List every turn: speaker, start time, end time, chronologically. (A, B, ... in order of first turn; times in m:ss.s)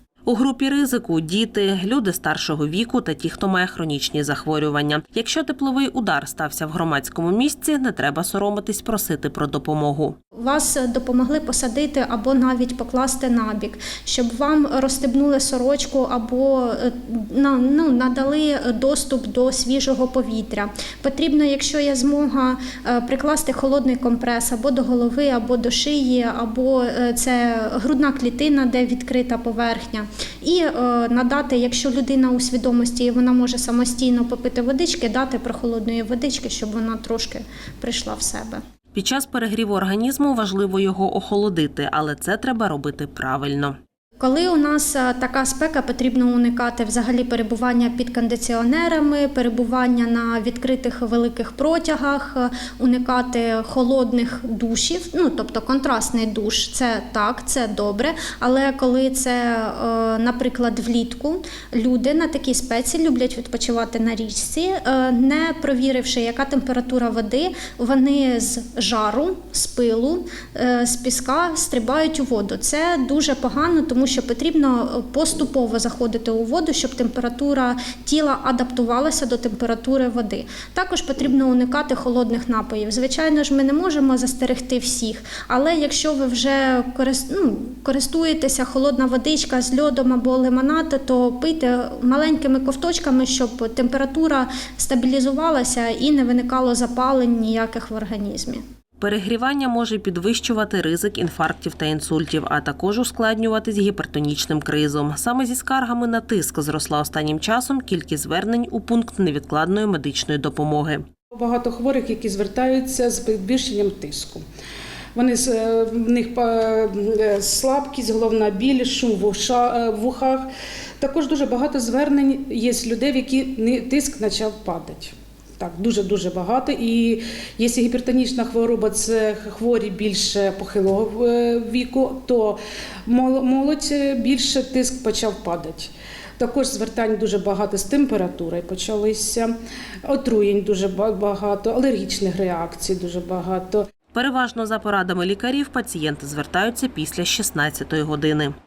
0:00.2-0:10.1 A
0:10.3-0:38.6 B
0:38.9-0:43.8 A
0:44.2-1:38.6 B
1:39.0-1:51.0 A
1:51.3-1:54.4 C
1:55.1-2:00.5 C
2:01.0-2:19.5 C
2:20.0-2:23.8 C
2:24.1-2:28.5 A